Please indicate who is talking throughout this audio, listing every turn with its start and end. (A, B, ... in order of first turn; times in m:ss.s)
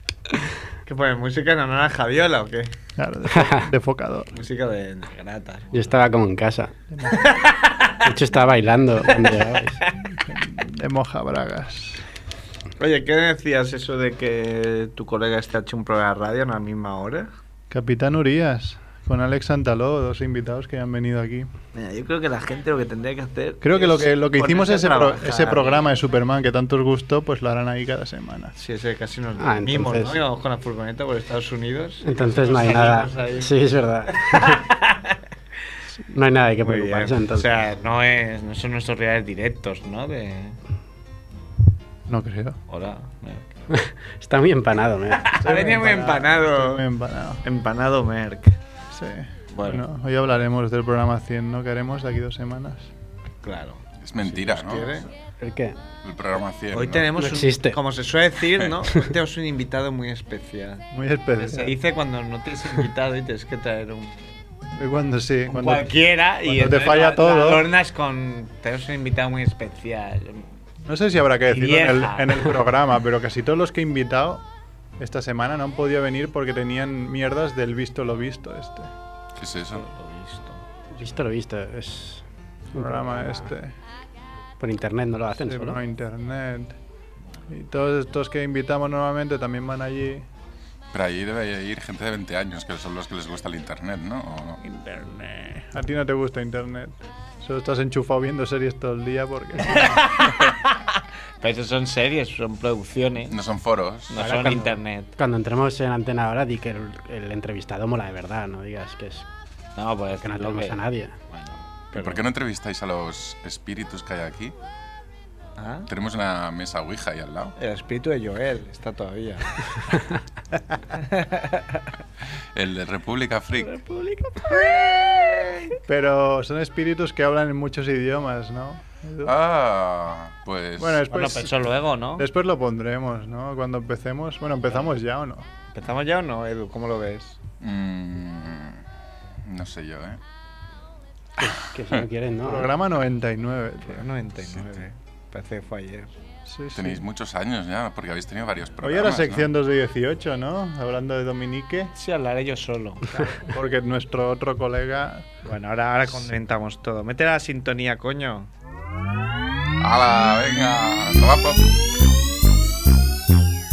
0:00.8-0:02.7 A
0:03.0-0:04.3 B
0:04.3-0:06.0 A
0:05.7-0:06.7 C
0:06.9-0:07.2 B
0:07.1-0:08.1 A
0:08.0-0:09.8 C
0:09.1-0:09.9 A
0:10.2-0:12.0 B
0:12.8-0:17.3 A
0:17.7-0:21.5 B
0:21.7-0:25.9 A
0:23.6-0:28.5 B
0:28.6-0:35.2 A
0:29.4-0:30.2 C
0:32.0-0:34.6 C
0:36.1-0:37.5 C
0:36.6-0:40.6 A
0:42.1-0:42.6 B
0:42.7-0:43.6 A
0:43.7-0:45.4 C
0:45.1-0:46.8 A
0:45.4-0:47.4 B
0:47.4-0:48.6 A
0:48.9-0:52.9 B
0:49.5-0:49.9 A
0:53.4-0:55.1 A
0:54.0-0:55.1 D
0:55.4-0:55.8 C
0:56.0-0:57.1 D
0:56.7-1:04.2 A
0:57.2-0:57.8 C
1:00.9-1:01.7 B
1:04.8-1:07.7 B
1:05.5-1:10.5 A
1:10.9-1:14.4 B
1:11.5-1:12.5 A
1:15.0-1:18.9 B
1:19.4-1:19.8 D
1:19.7-1:20.6 A
1:21.0-1:22.2 C
1:22.7-1:23.8 B
1:22.8-1:23.4 C
1:24.6-1:25.8 C
1:25.4-1:26.8 B
1:27.5-1:30.3 B
1:30.9-1:34.6 D
1:34.6-1:35.6 A
1:35.7-1:40.0 B
1:39.7-1:43.3 A
1:43.3-1:44.1 D
1:44.1-1:45.1 A
1:44.2-1:49.3 C
1:49.8-1:52.2 A
1:50.2-1:51.1 C
1:52.0-1:54.5 D
1:55.6-1:55.9 A
1:55.9-1:57.5 D
1:57.6-1:59.6 A
2:00.9-2:01.8 A
2:02.6-2:03.8 D
2:03.6-2:05.8 A
2:05.9-2:09.3 B
2:09.2-2:11.0 D
2:10.8-2:11.5 B
2:11.1-2:12.3 A
2:12.2-2:15.5 B
2:15.7-2:17.4 A
2:17.6-2:18.8 D
2:19.4-2:20.2 D
2:21.4-2:22.7 C
2:22.4-2:24.1 B
2:23.9-2:26.1 A
2:26.5-2:27.0 B
2:26.8-2:29.5 D
2:28.8-2:31.9 B
2:31.9-2:33.2 A
2:33.4-2:35.3 B
2:35.4-2:38.5 A
2:39.8-2:41.7 D